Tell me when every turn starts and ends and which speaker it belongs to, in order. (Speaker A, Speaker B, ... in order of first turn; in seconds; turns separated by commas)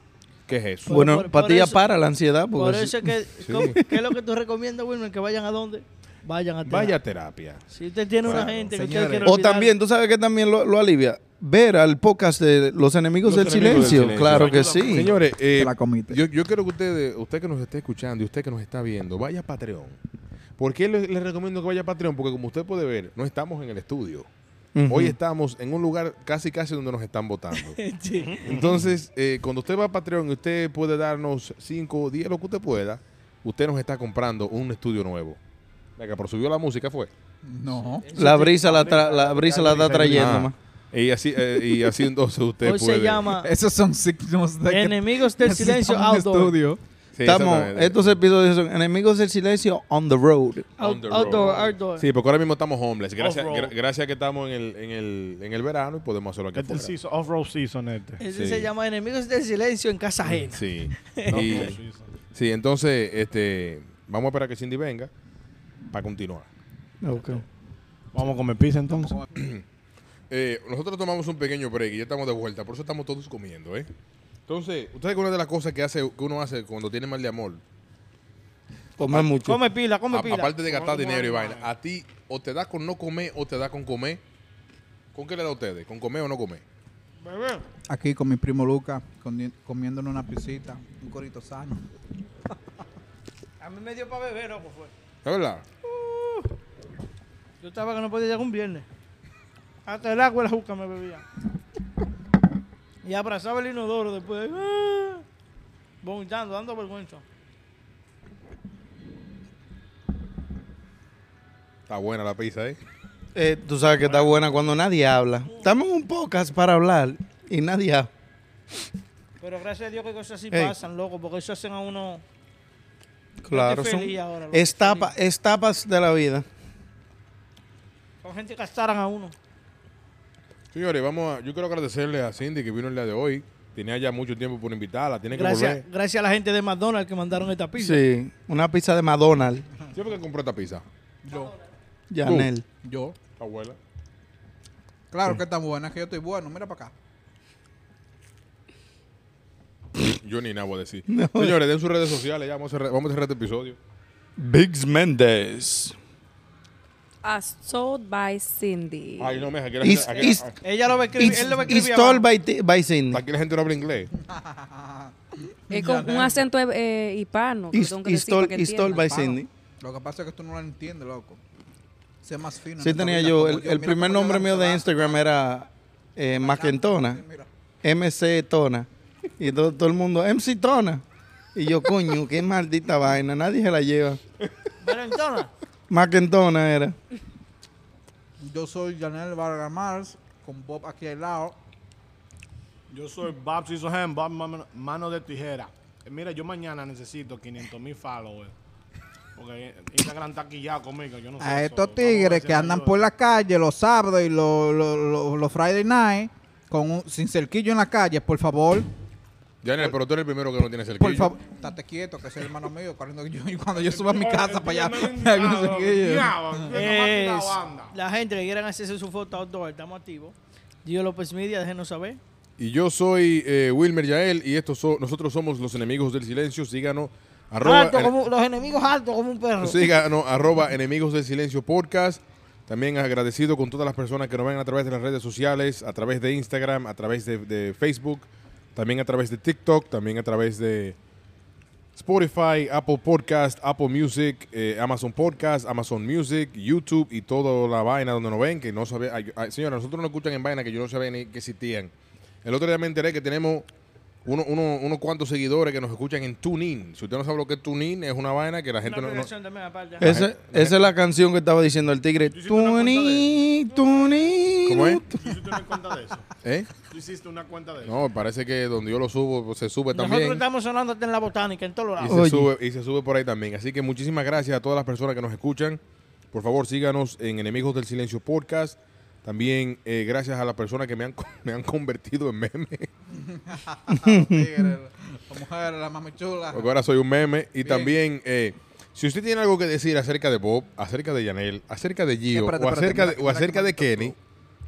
Speaker A: 0.5-1.1, Speaker B: 0.9-1.9, Speaker C: 0.9-4.0, Speaker B: 2.5-7.0, Speaker A: 3.4-3.8, Speaker A: 6.7-7.6, Speaker B: 7.7-9.8, Speaker A: 8.2-8.6, Speaker D: 8.2-9.3, Speaker C: 9.2-15.1, Speaker A: 13.2-20.0, Speaker E: 13.5-15.2, Speaker D: 15.4-16.2, Speaker A: 20.6-24.3, Speaker C: 24.8-25.2, Speaker A: 24.9-27.8, Speaker B: 27.6-28.6, Speaker E: 28.3-28.6, Speaker A: 28.4-35.4, Speaker A: 36.0-37.1, Speaker D: 37.4-38.1, Speaker E: 38.0-40.3, Speaker B: 38.1-40.0, Speaker C: 38.1-40.5, Speaker A: 40.1-43.3, Speaker B: 42.6-43.5, Speaker D: 43.4-46.8, Speaker B: 44.7-46.6, Speaker A: 47.2-48.2, Speaker C: 47.2-50.7, Speaker B: 50.8-52.1, Speaker A: 50.8-56.9, Speaker E: 53.2-53.8, Speaker E: 56.5-58.2, Speaker B: 58.2-61.7, Speaker A: 58.3-58.7, Speaker A: 60.4-61.8, Speaker E: 61.3-62.1, Speaker A: 62.3-65.1, Speaker A: 65.9-66.5, Speaker C: 67.0-67.4, Speaker E: 68.1-69.2, Speaker A: 69.3-69.6, Speaker A: 70.3-73.9, Speaker A: 74.5-77.6, Speaker C: 79.0-79.6, Speaker A: 79.0-79.3, Speaker B: 79.4-80.7, Speaker A: 80.1-84.2, Speaker E: 80.7-81.7, Speaker A: 85.1-86.6, Speaker B: 87.2-87.7, Speaker D: 87.9-91.9, Speaker B: 93.6-94.9, Speaker A: 95.2-95.6, Speaker B: 95.8-96.5, Speaker B: 97.6-98.9, Speaker B: 99.9-101.2, Speaker B: 103.0-105.2, Speaker B: 106.0-107.2, Speaker A: 111.9-112.8, Speaker C: 113.3-118.1, Speaker E: 114.2-114.5, Speaker B: 119.4-122.2, Speaker C: 123.5-126.5, Speaker B: 123.5-125.1, Speaker B: 128.2-129.3, Speaker A: 130.7-135.8, Speaker B: 135.3-138.0, Speaker C: 137.8-139.7, Speaker A: 139.9-140.8, Speaker D: 141.2-141.5, Speaker C: 142.1-142.7, Speaker A: 142.2-142.5, Speaker D: 142.8-143.2, Speaker A: 143.4-143.8, Speaker D: 145.1-146.9, Speaker A: 150.0-153.8, Speaker C: 151.1-151.6, Speaker C: 154.4-156.0, Speaker F: 157.2-159.4, Speaker A: 159.2-160.6, Speaker C: 159.8-160.5, Speaker B: 160.6-162.2, Speaker C: 161.2-163.2, Speaker A: 163.1-164.1, Speaker D: 164.2-166.4, Speaker F: 165.7-169.0, Speaker C: 167.7-169.5, Speaker D: 168.9-171.4, Speaker D: 172.2-175.2, Speaker C: 172.8-177.2, Speaker D: 176.4-177.5, Speaker C: 177.8-178.9, Speaker C: 179.4-181.0, Speaker C: 181.6-184.2, Speaker B: 184.8-185.5, Speaker C: 185.9-186.9, Speaker D: 188.4-191.6, Speaker E: 192.9-198.5, Speaker E: 199.4-203.0, Speaker D: 201.4-208.9, Speaker A: 209.6-211.4, Speaker D: 211.0-216.7, Speaker E: 213.8-217.9, Speaker B: 216.7-222.2, Speaker A: 222.6-228.1, Speaker B: 227.6-229.9, Speaker A: 229.6-241.0, Speaker A: 241.9-251.9, Speaker A: 252.4-253.7, Speaker A: 254.2-259.3, Speaker B: 258.8-260.2, Speaker A: 260.0-260.9, Speaker C: 260.0-265.3, Speaker E: 262.3-263.4, Speaker A: 264.7-265.1, Speaker E: 265.1-266.3, Speaker A: 266.4-266.8, Speaker E: 266.8-268.0, Speaker A: 267.9-270.4, Speaker B: 269.9-272.3, Speaker A: 272.0-275.8, Speaker C: 272.1-272.5, Speaker A: 276.3-282.9, Speaker D: 283.2-286.7, Speaker C: 283.9-284.8, Speaker A: 286.5-294.1, Speaker D: 287.6-288.0, Speaker D: 292.3-294.2